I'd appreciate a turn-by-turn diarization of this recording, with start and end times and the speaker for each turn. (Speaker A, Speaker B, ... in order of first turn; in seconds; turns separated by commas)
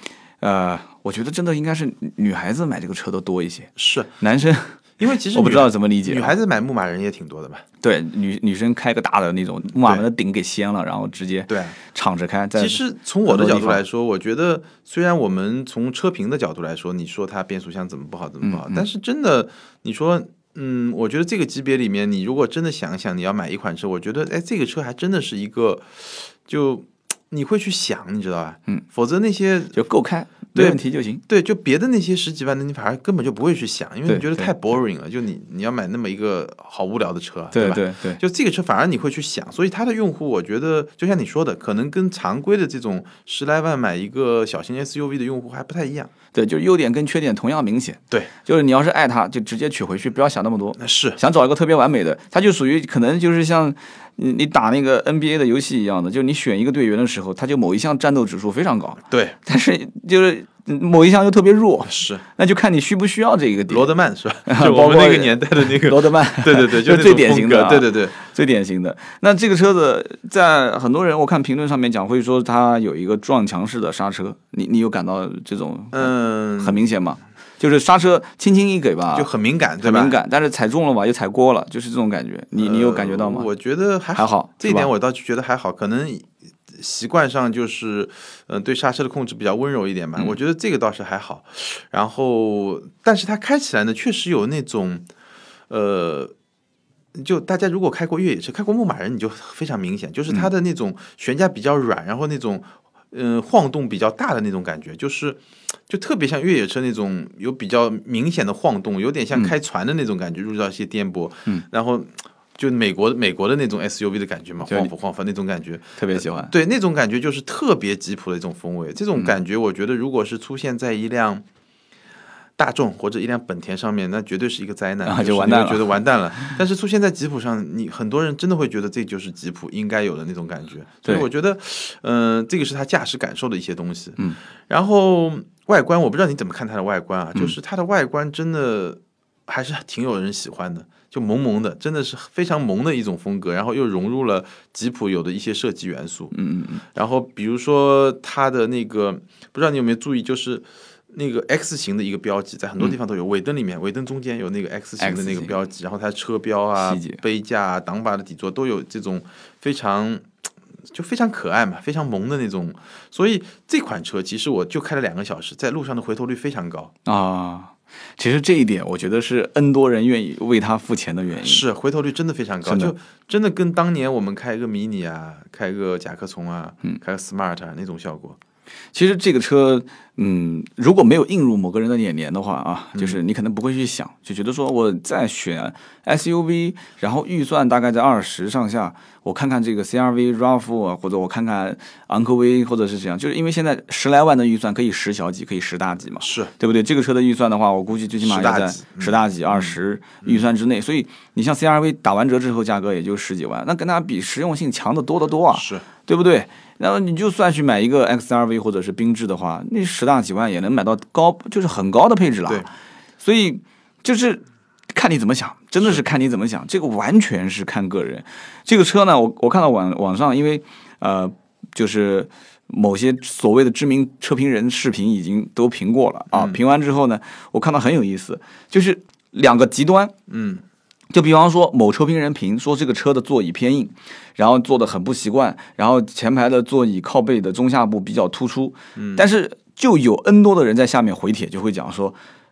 Speaker A: 0.4-4.8, Speaker B: 3.8-4.1, Speaker B: 5.0-7.6, Speaker A: 5.3-6.3, Speaker A: 7.8-13.8, Speaker B: 11.5-11.8, Speaker B: 12.6-29.8, Speaker A: 18.4-18.8, Speaker A: 29.7-31.2, Speaker B: 30.5-46.1, Speaker A: 34.1-34.5, Speaker A: 37.5-38.2, Speaker A: 46.3-63.9, Speaker B: 50.8-51.2, Speaker B: 59.1-59.4, Speaker B: 61.9-62.2, Speaker B: 63.7-68.2, Speaker A: 64.5-79.3, Speaker B: 75.9-76.9, Speaker B: 79.1-80.2, Speaker A: 79.8-83.5, Speaker B: 82.6-95.1, Speaker A: 84.1-84.9, Speaker B: 95.7-96.3, Speaker B: 97.1-121.4, Speaker A: 116.0-116.5, Speaker B: 122.6-146.3, Speaker A: 125.0-126.6, Speaker A: 146.3-146.8, Speaker B: 146.9-160.3, Speaker A: 155.0-155.5, Speaker A: 156.8-157.2, Speaker B: 160.9-166.9, Speaker A: 167.0-171.6, Speaker B: 171.4-178.4, Speaker A: 172.6-172.9, Speaker A: 178.9-212.7, Speaker B: 196.2-196.5, Speaker B: 198.2-200.4, Speaker B: 205.5-205.8, Speaker A: 213.2-230.1, Speaker B: 226.3-226.6, Speaker B: 230.3-230.6, Speaker A: 231.1-242.2, Speaker B: 238.9-239.2